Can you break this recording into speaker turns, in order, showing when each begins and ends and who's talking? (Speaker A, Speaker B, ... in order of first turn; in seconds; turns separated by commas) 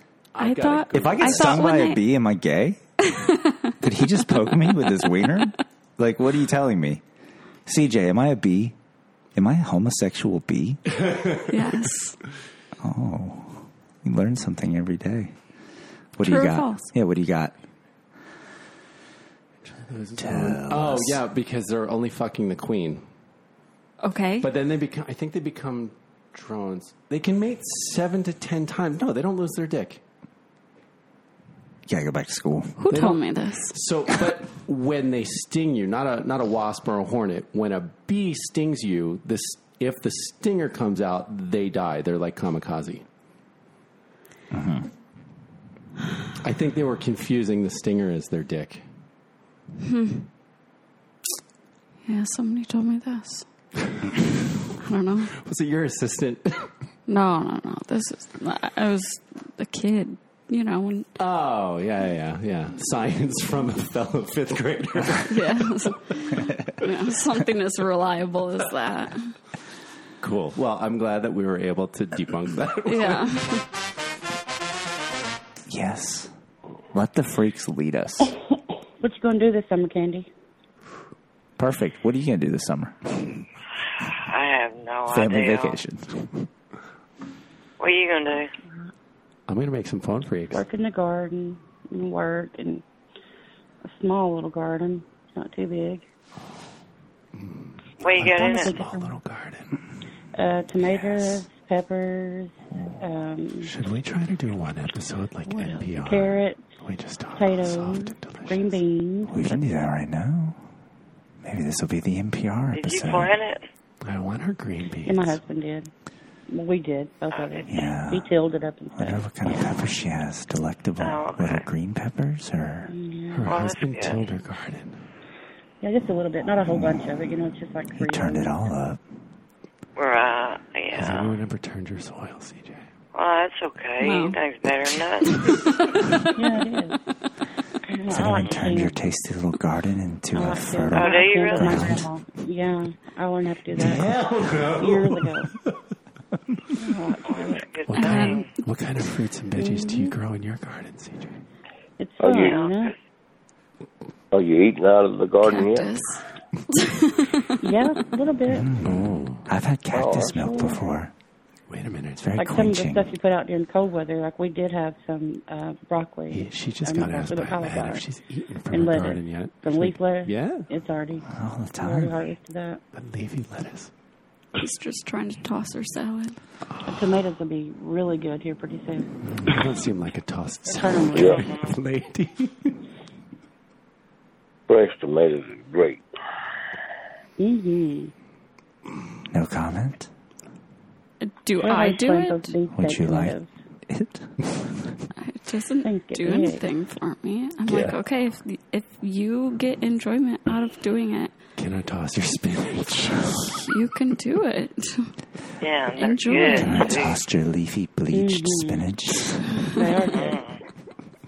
Speaker A: 0.3-1.6, Speaker B: 0.4-2.0, Speaker C: 0.9-2.8, Speaker B: 3.0-3.7, Speaker C: 3.8-7.0, Speaker B: 4.5-5.3, Speaker C: 7.7-8.7, Speaker C: 9.3-10.8, Speaker A: 10.9-11.6, Speaker B: 11.5-12.2, Speaker C: 12.8-15.3, Speaker C: 16.2-17.6, Speaker B: 16.2-16.9, Speaker A: 19.6-23.0, Speaker C: 20.2-21.2, Speaker B: 24.0-24.5, Speaker A: 24.4-30.0, Speaker C: 31.9-32.8, Speaker B: 32.8-33.7, Speaker A: 32.9-43.0, Speaker C: 44.5-44.9, Speaker A: 46.4-48.8, Speaker B: 49.8-50.2, Speaker B: 52.0-53.5, Speaker B: 54.8-55.3, Speaker A: 55.4-56.7, Speaker B: 57.1-61.1, Speaker A: 61.2-65.9, Speaker B: 65.2-69.3, Speaker A: 70.2-73.3, Speaker B: 72.9-73.6, Speaker C: 75.7-76.3, Speaker C: 76.9-78.3, Speaker D: 79.0-80.3, Speaker C: 81.6-82.9, Speaker E: 84.0-85.8, Speaker C: 85.1-86.5, Speaker E: 87.8-88.5, Speaker A: 89.5-90.6, Speaker D: 90.5-92.8, Speaker D: 93.8-96.0, Speaker A: 97.3-99.7, Speaker E: 98.0-98.8, Speaker D: 98.3-99.1, Speaker D: 100.3-103.7, Speaker A: 103.6-108.8, Speaker D: 105.6-106.6, Speaker D: 107.3-109.6, Speaker C: 109.3-110.6, Speaker C: 111.4-113.3, Speaker E: 112.7-113.6, Speaker A: 114.0-115.4, Speaker D: 115.0-115.9, Speaker D: 116.5-119.2, Speaker E: 117.3-117.6, Speaker C: 117.7-118.3, Speaker C: 119.0-122.9, Speaker E: 121.0-121.7, Speaker D: 122.8-123.6, Speaker A: 123.3-125.0, Speaker E: 123.5-124.3, Speaker D: 125.8-128.6, Speaker C: 126.7-127.0, Speaker C: 128.0-129.0, Speaker E: 129.9-131.4, Speaker A: 130.9-132.8, Speaker E: 133.1-135.5, Speaker B: 134.0-134.4, Speaker B: 135.2-136.6, Speaker D: 136.3-137.0, Speaker D: 137.8-138.9, Speaker C: 138.1-142.0, Speaker D: 140.3-144.1, Speaker E: 140.9-141.9, Speaker C: 143.8-144.0, Speaker A: 143.8-145.8, Speaker D: 144.7-145.5, Speaker D: 146.8-147.7, Speaker E: 147.2-148.5, Speaker A: 147.9-151.4, Speaker B: 147.9-148.5, Speaker D: 149.6-150.1, Speaker D: 152.0-152.9, Speaker F: 152.2-152.6, Speaker E: 152.3-152.9, Speaker F: 154.3-155.9, Speaker B: 155.4-157.5, Speaker D: 157.6-158.7, Speaker C: 158.5-161.1, Speaker A: 158.8-159.4, Speaker F: 159.9-160.4, Speaker D: 160.3-160.9, Speaker A: 161.7-162.3, Speaker C: 162.2-163.1, Speaker D: 162.4-168.0, Speaker A: 166.3-170.7, Speaker D: 168.7-171.3, Speaker C: 171.3-172.1, Speaker D: 171.8-172.8, Speaker A: 172.9-173.9, Speaker B: 174.6-176.4, Speaker D: 176.8-179.1, Speaker A: 179.2-182.8, Speaker D: 180.7-181.6, Speaker F: 181.1-181.4, Speaker F: 184.7-186.0, Speaker D: 187.4-188.1, Speaker C: 189.3-190.1, Speaker B: 191.2-192.6, Speaker D: 191.6-193.5, Speaker C: 192.7-193.3, Speaker C: 193.9-194.3, Speaker B: 195.2-201.3, Speaker D: 195.8-196.6, Speaker A: 201.6-203.6, Speaker B: 203.6-205.1, Speaker E: 205.6-207.2, Speaker B: 206.0-206.9, Speaker C: 206.6-209.6, Speaker D: 208.1-208.9, Speaker D: 209.7-210.4, Speaker E: 210.1-210.6